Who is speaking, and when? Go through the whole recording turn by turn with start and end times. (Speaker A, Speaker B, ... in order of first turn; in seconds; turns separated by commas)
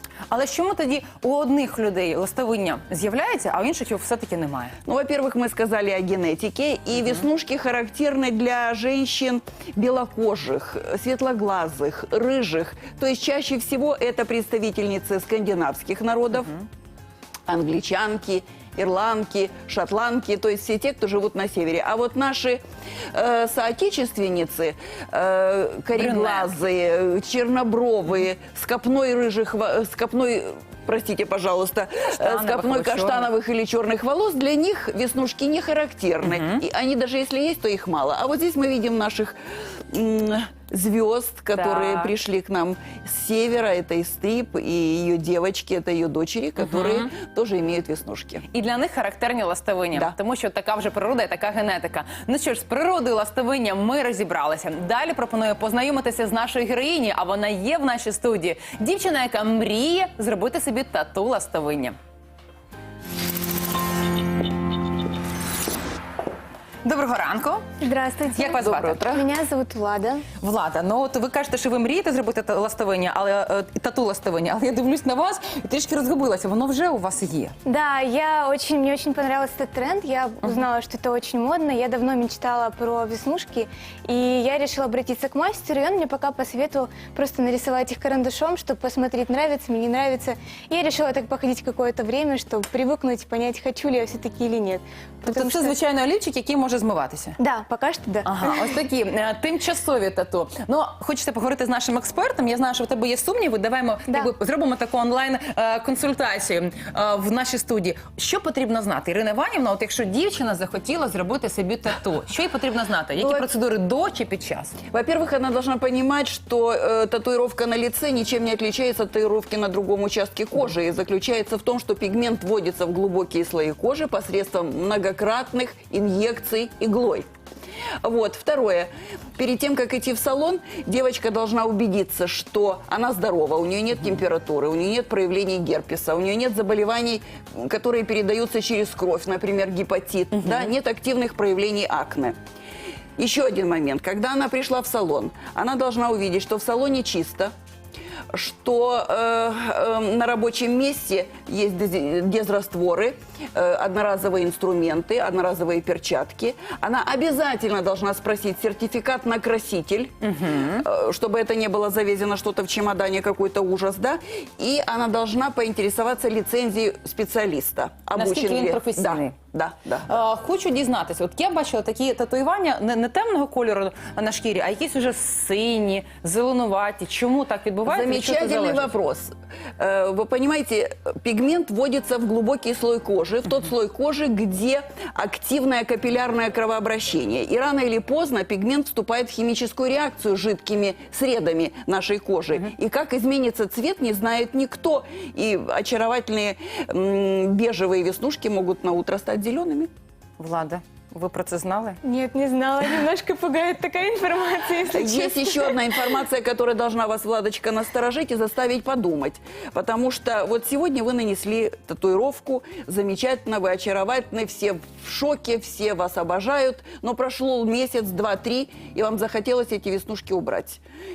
Speaker A: 0.3-4.8, Speaker B: 4.8-16.6, Speaker B: 17.5-22.6, Speaker B: 23.1-39.4, Speaker A: 25.9-26.5, Speaker A: 32.1-33.3, Speaker A: 36.2-36.6, Speaker B: 39.9-48.4, Speaker A: 41.6-42.1, Speaker A: 46.8-47.1, Speaker A: 48.5-62.0, Speaker A: 66.8-67.7, Speaker C: 67.8-70.2, Speaker A: 68.3-69.0, Speaker B: 68.5-69.2, Speaker A: 70.4-77.5, Speaker C: 77.6-95.8, Speaker A: 95.2-97.4, Speaker C: 97.4-98.6, Speaker A: 98.2-114.8, Speaker B: 113.2-113.5, Speaker B: 114.9-127.2, Speaker B: 128.0-142.3, Speaker B: 143.2-147.5, Speaker B: 148.3-170.1, Speaker A: 160.2-160.8, Speaker A: 168.1-169.3, Speaker A: 170.1-178.9, Speaker B: 177.8-199.9, Speaker A: 200.4-202.0, Speaker C: 202.0-205.9, Speaker B: 204.9-220.8